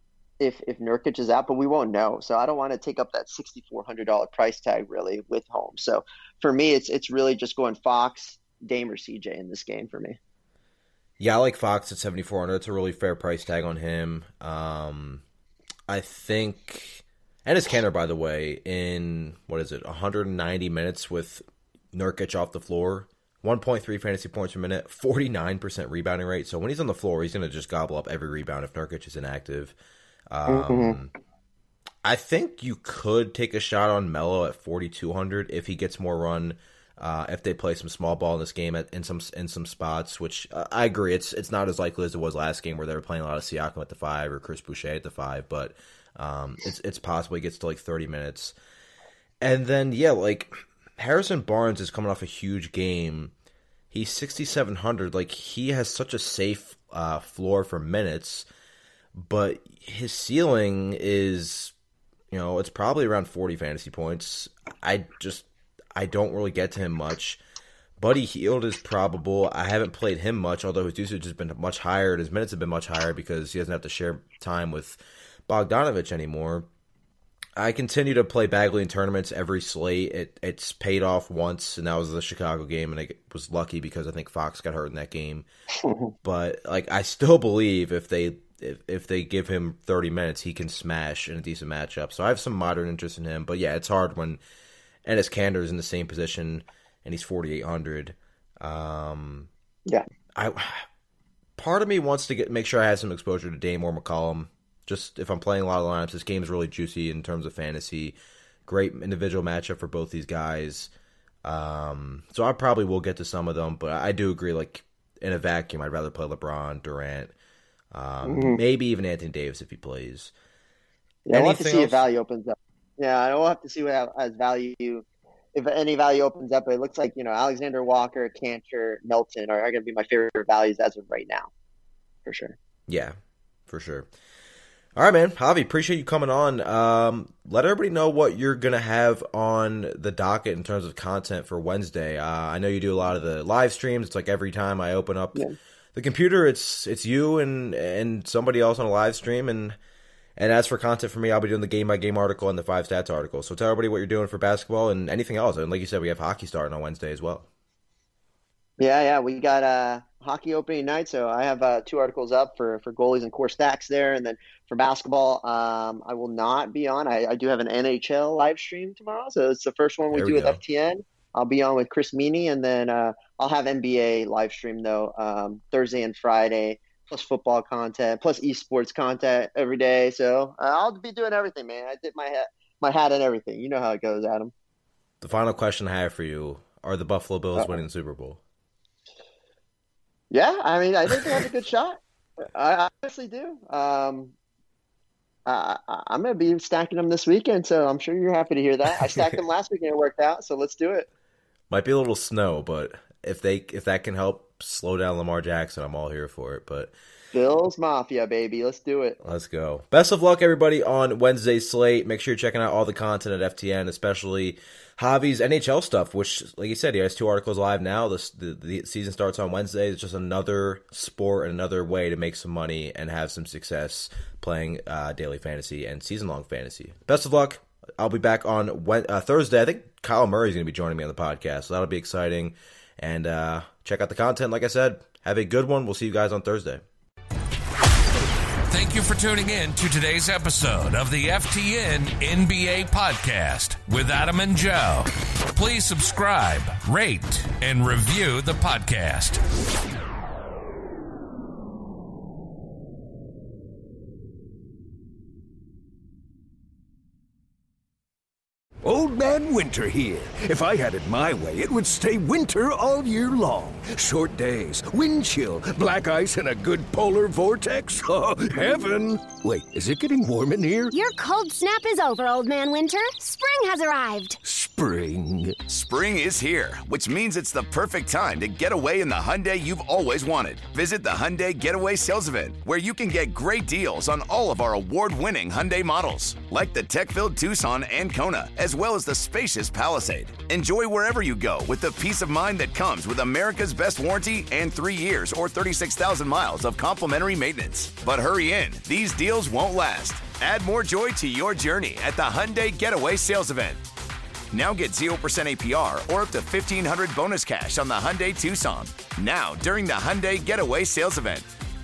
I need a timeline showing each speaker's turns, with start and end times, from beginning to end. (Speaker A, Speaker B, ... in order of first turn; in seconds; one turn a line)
Speaker A: 0.4-10.2
Speaker B: 11.2-15.2
Speaker B: 15.9-29.8
Speaker B: 30.3-31.1
Speaker A: 30.5-31.0
Speaker B: 32.0-48.6
Speaker B: 49.4-53.3
Speaker B: 53.9-58.5
Speaker B: 59.1-61.7
Speaker B: 62.3-67.4
Speaker B: 68.0-76.7
Speaker B: 77.6-85.5
Speaker B: 86.2-94.4
Speaker B: 95.0-99.5
Speaker B: 100.3-100.8
Speaker B: 101.6-108.2
Speaker B: 108.7-110.9
Speaker B: 111.4-117.3
Speaker B: 117.9-120.3
Speaker A: 118.2-118.6
Speaker A: 121.3-131.5
Speaker B: 121.3-122.0
Speaker A: 132.3-132.6
Speaker B: 132.9-133.2
Speaker B: 133.7-134.1
Speaker B: 135.0-149.8
Speaker B: 150.4-157.5
Speaker A: 158.8-184.5
Speaker B: 170.1-170.6
Speaker B: 185.2-188.4
Speaker A: 190.3-194.3
Speaker A: 195.5-201.1
Speaker B: 199.0-199.3
Speaker B: 201.7-206.9
Speaker A: 207.3-209.2
Speaker B: 209.2-236.8
Speaker C: 238.7-249.4
Speaker D: 258.8-270.9
Speaker E: 270.9-274.4
Speaker D: 274.4-275.6
Speaker F: 275.7-303.8
Speaker F: 304.5-311.5